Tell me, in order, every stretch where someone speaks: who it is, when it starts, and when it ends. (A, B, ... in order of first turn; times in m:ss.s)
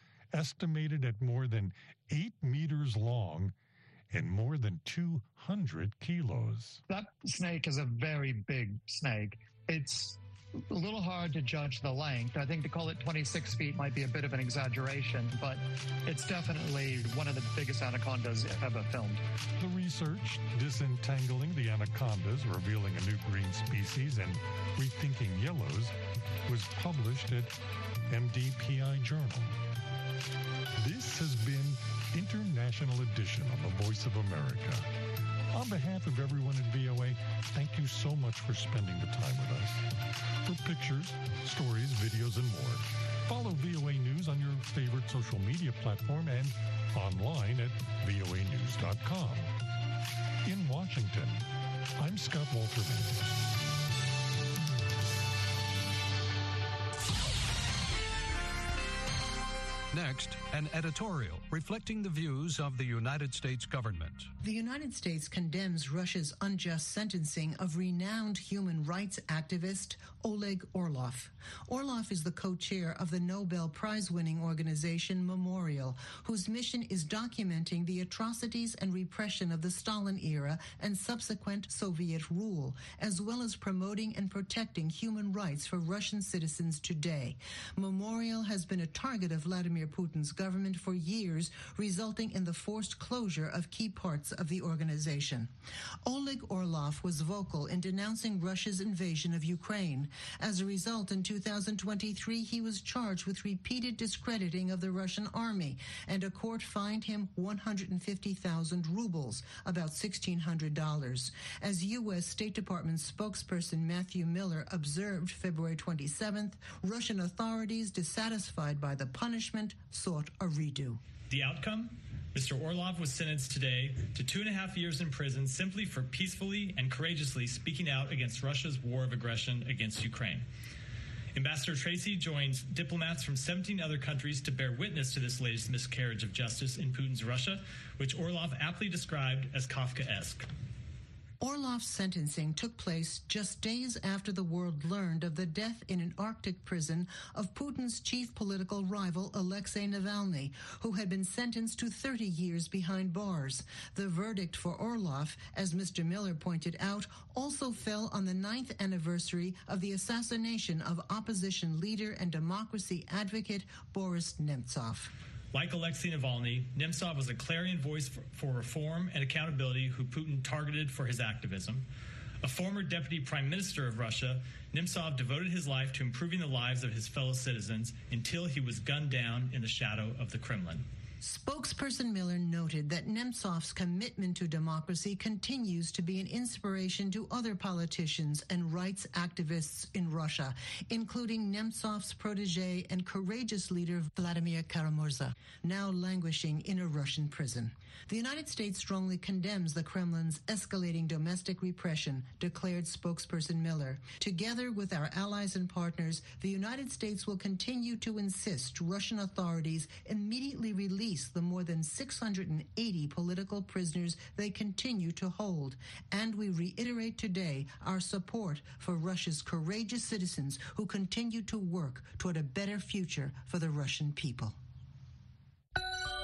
0:00.3-0:03.5 A
0:04.1-0:06.8 A
0:06.9-0:19.2 B
0:19.6-0:25.9 A
0:26.4-0:27.5 A
0:28.1-0:29.6 A
0:30.8-0:34.9 A
0:35.5-0:39.8 A
0:40.4-0:49.5 A
0:50.4-0:53.2 A
0:59.9-1:04.3 C
1:04.4-1:35.5 D
1:36.0-2:01.0 D
2:01.3-2:10.4 E
2:11.3-2:20.5 E
2:21.4-2:45.1 D
2:45.5-2:51.8 E
2:52.4-3:00.8 E
3:01.2-3:44.5 D